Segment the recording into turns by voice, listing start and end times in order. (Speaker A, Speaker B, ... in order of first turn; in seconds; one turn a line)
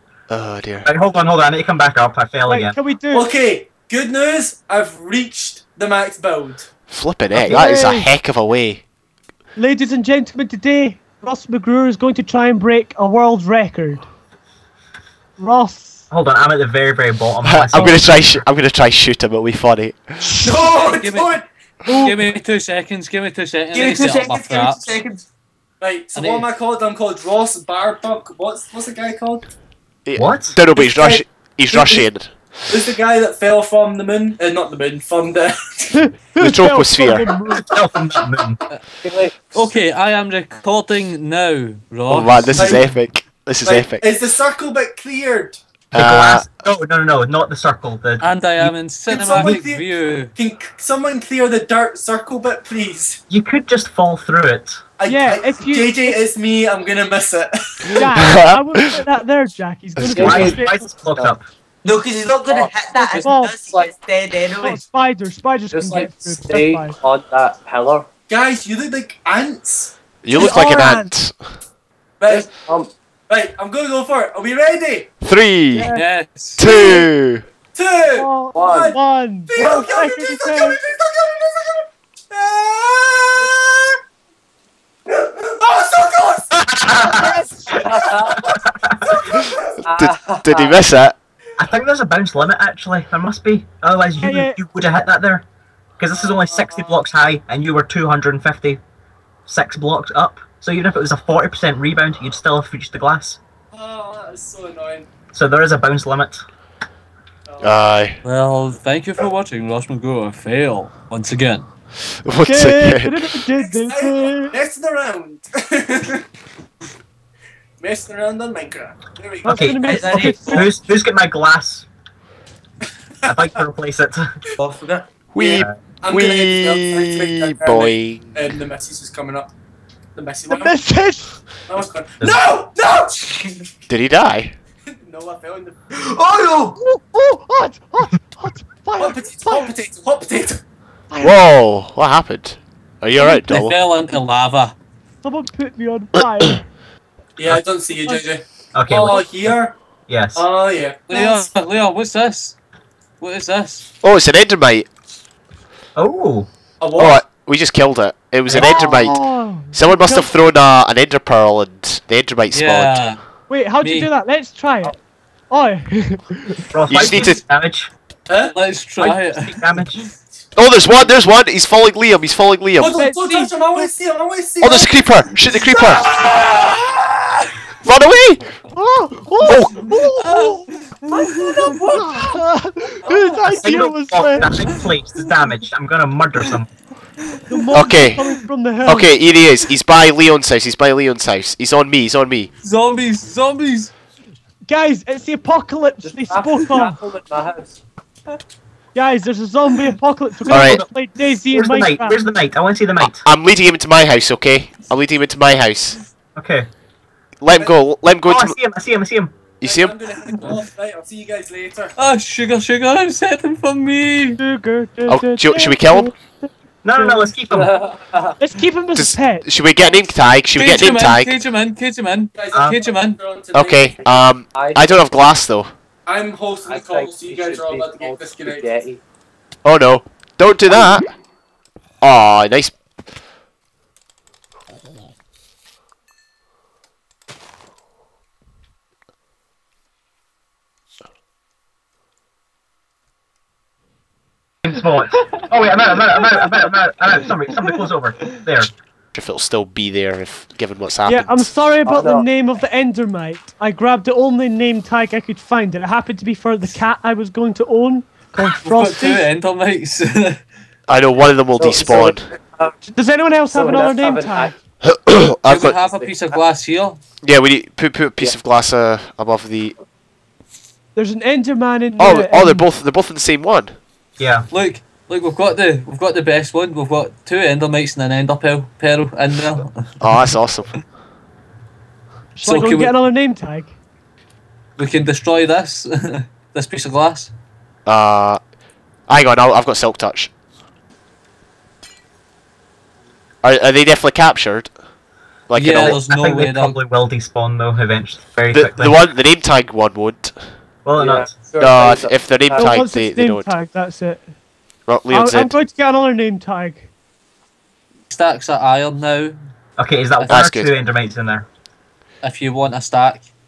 Speaker A: 0.3-0.9
Speaker B: 0.8-2.8
Speaker C: 2.5-3.3
Speaker D: 3.1-6.7
Speaker A: 6.9-8.8
Speaker B: 7.3-7.9
Speaker C: 7.5-8.1
Speaker C: 9.6-14.1
Speaker C: 15.4-16.0
Speaker B: 16.1-18.4
Speaker A: 17.4-20.3
Speaker C: 17.7-18.0
Speaker D: 20.4-21.4
Speaker E: 20.4-21.4
Speaker F: 20.7-21.3
Speaker C: 21.9-22.2
Speaker F: 21.9-24.8
Speaker E: 23.7-25.2
Speaker D: 25.8-29.5
Speaker F: 26.1-26.4
Speaker A: 30.1-32.9
Speaker B: 30.1-30.6
Speaker D: 30.7-32.1
Speaker D: 32.7-35.9
Speaker C: 35.9-37.7
Speaker A: 36.4-37.3
Speaker B: 37.6-38.6
Speaker G: 39.0-39.5
Speaker F: 39.4-42.8
Speaker A: 42.1-44.1
Speaker D: 42.6-42.9
Speaker D: 43.6-45.6
Speaker A: 45.9-46.5
Speaker B: 45.9-48.7
Speaker F: 48.2-50.3
Speaker D: 49.1-53.2
Speaker B: 53.3-54.8
Speaker D: 55.0-58.1
Speaker C: 55.1-56.2
Speaker C: 57.9-60.8
Speaker A: 58.0-58.8
Speaker A: 60.0-60.6
Speaker G: 60.1-61.3
Speaker B: 60.1-61.5
Speaker E: 61.8-64.8
Speaker G: 62.4-63.9
Speaker C: 63.2-63.5
Speaker C: 64.6-67.0
Speaker G: 65.7-68.1
Speaker D: 68.3-69.9
Speaker A: 70.2-71.4
Speaker C: 70.3-71.1
Speaker D: 72.2-72.5
Speaker G: 72.2-72.9
Speaker D: 73.3-75.1
Speaker A: 75.2-75.9
Speaker C: 75.7-76.0
Speaker F: 75.9-76.6
Speaker A: 76.6-77.4
Speaker D: 76.6-77.1
Speaker C: 76.6-76.9
Speaker D: 77.7-84.0
Speaker C: 78.1-80.8
Speaker G: 78.5-79.0
Speaker D: 85.1-86.6
Speaker B: 86.6-87.8
Speaker C: 86.9-87.8
Speaker D: 87.4-88.5
Speaker G: 87.7-88.5
Speaker B: 88.5-89.2
Speaker D: 89.1-89.6
Speaker G: 89.8-90.8
Speaker A: 89.8-91.2
Speaker B: 91.6-95.5
Speaker C: 94.2-94.6
Speaker B: 96.0-98.8
Speaker D: 96.2-97.0
Speaker B: 99.5-103.4
Speaker D: 103.7-105.1
Speaker B: 105.3-106.4
Speaker D: 107.5-107.8
Speaker A: 107.6-108.2
Speaker F: 108.2-111.7
Speaker A: 112.2-113.3
Speaker C: 112.4-114.5
Speaker D: 113.6-116.2
Speaker D: 117.8-120.4
Speaker C: 119.4-120.7
Speaker B: 119.5-121.8
Speaker E: 119.8-120.7
Speaker B: 123.2-124.3
Speaker E: 124.6-125.2
Speaker A: 125.3-128.6
Speaker D: 125.3-129.5
Speaker D: 130.1-130.8
Speaker C: 130.5-131.4
Speaker D: 131.7-133.7
Speaker A: 133.9-134.5
Speaker D: 134.9-135.8
Speaker E: 135.9-136.8
Speaker C: 136.8-139.7
Speaker D: 139.0-140.6
Speaker C: 141.1-141.4
Speaker A: 141.2-143.8
Speaker F: 143.3-144.7
Speaker C: 145.2-146.6
Speaker A: 146.2-146.5
Speaker D: 147.4-149.8
Speaker B: 148.7-149.6
Speaker B: 150.1-150.4
Speaker D: 150.3-151.4
Speaker F: 151.1-152.6
Speaker F: 153.2-153.9
Speaker A: 154.0-154.9
Speaker B: 155.9-156.5
Speaker D: 156.8-157.2
Speaker A: 157.0-163.0
Speaker B: 158.5-159.0
Speaker C: 158.5-160.3
Speaker F: 162.5-163.2
Speaker C: 163.5-164.9
Speaker F: 163.8-164.1
Speaker C: 165.5-166.6
Speaker B: 166.7-167.9
Speaker A: 166.9-167.4
Speaker D: 168.3-168.5
Speaker F: 168.5-170.0
Speaker B: 169.0-170.1
Speaker A: 170.5-173.0
Speaker D: 172.8-176.5
Speaker C: 173.0-173.9
Speaker A: 174.6-176.0
Speaker F: 176.1-177.3
Speaker A: 177.8-178.5
Speaker C: 178.7-184.5
Speaker A: 179.4-180.2
Speaker F: 180.2-182.4
Speaker D: 183.1-183.3
Speaker B: 183.5-186.7
Speaker C: 187.5-189.1
Speaker A: 187.7-188.2
Speaker A: 188.8-192.5
Speaker F: 192.6-193.9
Speaker C: 194.7-197.0
Speaker G: 196.0-197.8
Speaker C: 198.9-202.2
Speaker B: 200.5-203.2
Speaker A: 200.5-200.8
Speaker A: 203.0-206.0
Speaker B: 206.3-206.7
Speaker A: 207.4-208.6
Speaker B: 208.2-209.4
Speaker A: 209.6-209.9
Speaker D: 209.6-211.9
Speaker F: 212.0-214.4
Speaker C: 214.4-217.1
Speaker A: 215.1-216.1
Speaker B: 216.8-217.7
Speaker G: 217.5-218.3
Speaker C: 218.4-219.4
Speaker A: 218.9-221.3
Speaker F: 220.5-223.2
Speaker D: 222.3-224.2
Speaker B: 222.5-222.8
Speaker A: 223.5-225.7
Speaker G: 224.5-225.0
Speaker D: 226.1-228.7
Speaker G: 226.7-229.0
Speaker A: 229.6-231.1
Speaker G: 230.7-231.0
Speaker A: 232.0-232.8
Speaker B: 244.6-248.7
Speaker A: 249.1-251.5
Speaker C: 251.1-259.2
Speaker G: 251.8-252.3
Speaker F: 258.4-260.4
Speaker A: 260.9-262.3
Speaker G: 261.6-262.8
Speaker C: 262.9-264.5
Speaker G: 263.5-264.5
Speaker A: 264.8-265.8
Speaker F: 265.4-267.0
Speaker G: 265.9-266.4
Speaker A: 267.2-269.8
Speaker C: 270.9-272.7
Speaker A: 272.0-273.8
Speaker B: 274.2-274.5
Speaker F: 274.5-280.4
Speaker A: 280.0-280.7
Speaker C: 282.4-283.7
Speaker F: 282.4-282.9
Speaker F: 284.8-287.3
Speaker A: 287.9-288.4
Speaker A: 289.1-290.3
Speaker A: 293.4-294.7
Speaker A: 295.5-296.0
Speaker F: 295.5-296.8
Speaker B: 295.7-299.0
Speaker A: 298.5-300.4
Speaker B: 300.8-301.4
Speaker G: 300.9-302.8
Speaker A: 301.6-303.5
Speaker C: 302.5-304.3
Speaker A: 304.9-305.6
Speaker C: 305.1-306.9
Speaker F: 308.1-309.4
Speaker B: 309.8-311.5
Speaker A: 310.3-310.7
Speaker F: 312.2-313.3